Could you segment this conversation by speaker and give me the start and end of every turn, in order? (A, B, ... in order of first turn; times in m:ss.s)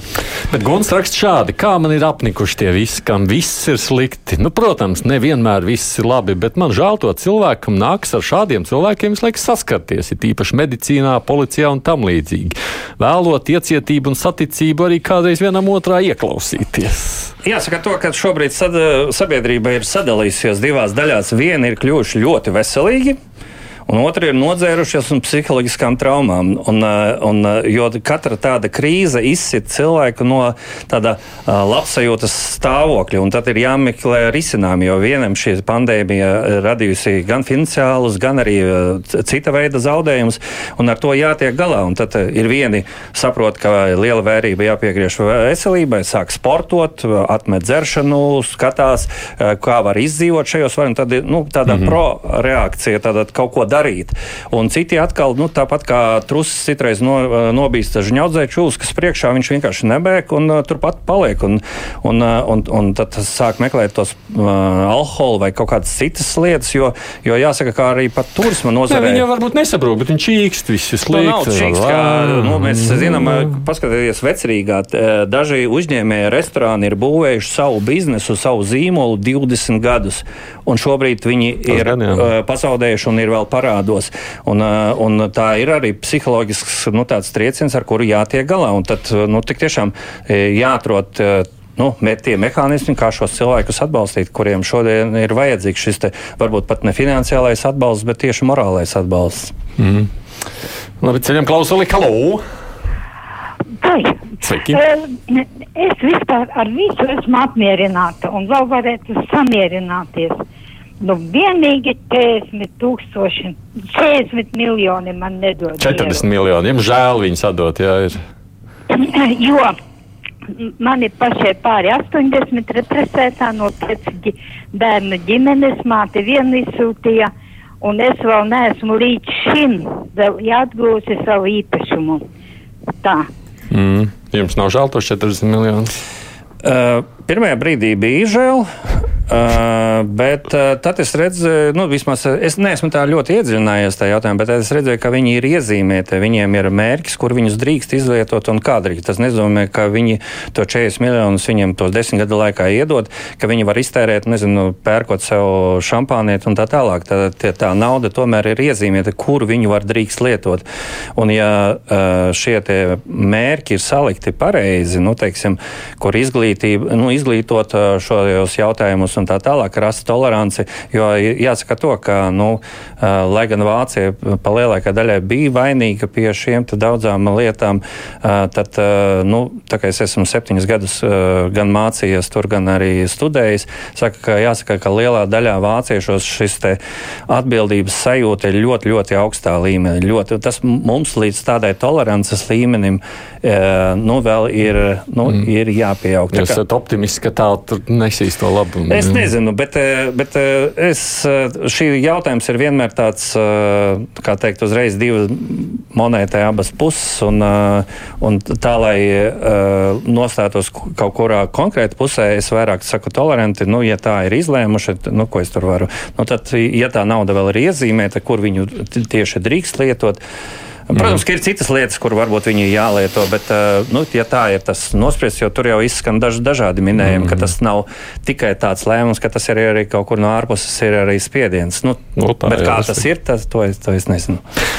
0:00.5-0:17.3 A
0:17.4-0:23.2 B
0:23.9-1:09.2 B
1:08.9-1:13.5 A
1:11.1-1:39.5 B
1:21.7-1:22.2 A
1:39.8-1:40.1 A
1:41.0-1:42.4 A
1:43.8-1:44.2 C
1:44.4-1:44.8 A
1:44.7-1:50.4 C
1:51.0-1:56.2 C
1:55.8-1:58.2 A
1:58.9-1:59.8 C
2:00.6-2:12.2 C
2:13.0-2:13.3 C
2:13.7-2:16.0 A
2:16.6-2:18.7 B
2:19.3-2:40.6 B
2:41.2-3:16.6 B
3:16.3-3:19.3 A
3:18.9-3:40.2 B
3:40.9-3:54.4 B
3:47.0-3:47.5 A
3:52.2-3:53.0 A